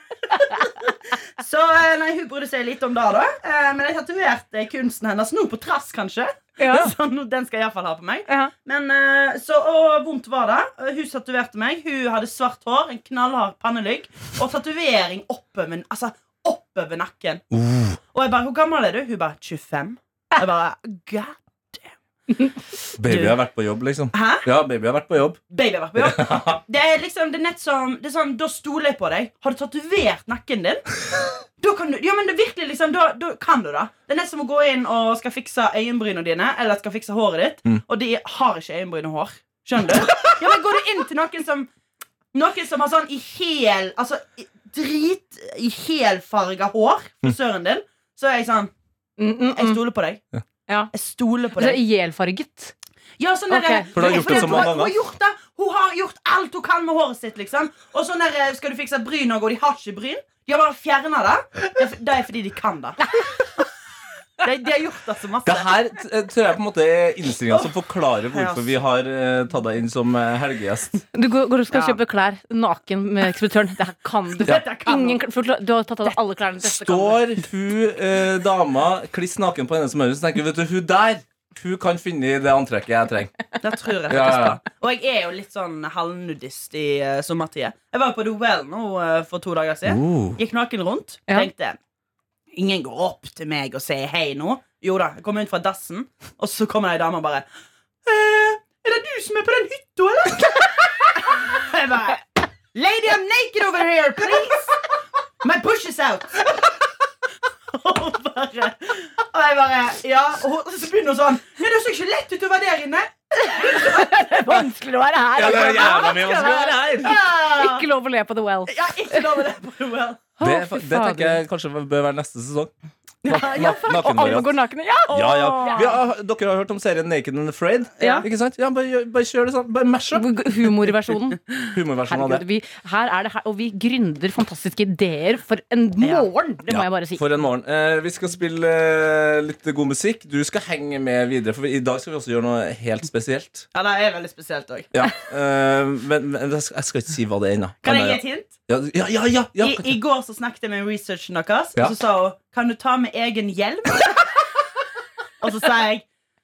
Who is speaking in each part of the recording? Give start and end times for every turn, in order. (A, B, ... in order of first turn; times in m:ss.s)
0:00.3-0:17.4 A
0:06.6-0:06.9 B
0:17.5-0:18.0 C
0:18.1-0:22.5 A
0:23.0-0:25.4 C
0:23.0-0:23.4 A
0:24.1-0:24.5 A
0:25.5-0:30.9 A
0:26.0-0:26.5 C
0:31.6-0:41.7 A
0:42.3-0:48.7 A
0:49.2-0:49.8 B
0:49.5-0:50.2 A
0:50.9-0:51.8 A
0:51.6-0:52.7 B
0:53.2-1:03.2 A
0:53.5-0:54.7 B
0:53.9-0:54.9 C
1:04.4-1:05.7 A
1:05.4-1:11.0 C
1:08.3-1:08.7 A
1:11.1-1:17.3 B
1:11.7-1:12.0 A
1:14.4-1:15.2 A
1:16.6-1:23.3 C
1:23.6-1:31.8 A
1:24.1-1:24.6 C
1:29.8-1:30.4 C
1:32.5-1:37.5 A
1:38.0-1:44.8 A
1:45.4-1:46.6 A
1:47.7-1:54.5 A
1:53.7-1:59.2 B
1:55.4-1:57.2 C
1:55.4-1:57.9 A
1:58.7-2:00.3 A
2:00.4-2:01.4 B
2:00.4-2:02.7 C
2:03.2-2:04.2 A
2:03.3-2:04.6 C
2:03.5-2:06.0 B
2:05.1-2:10.3 C
2:05.6-2:05.9 A
2:08.0-2:08.3 A
2:08.0-2:08.3 B
2:10.1-2:11.4 B
2:11.7-2:12.4 C
2:12.1-2:17.2 B
2:16.0-2:16.3 A
2:16.7-2:23.7 C
2:23.7-2:24.9 A
2:24.9-2:30.0 C
2:27.8-2:28.5 A
2:29.6-2:34.4 A
2:35.4-2:36.1 A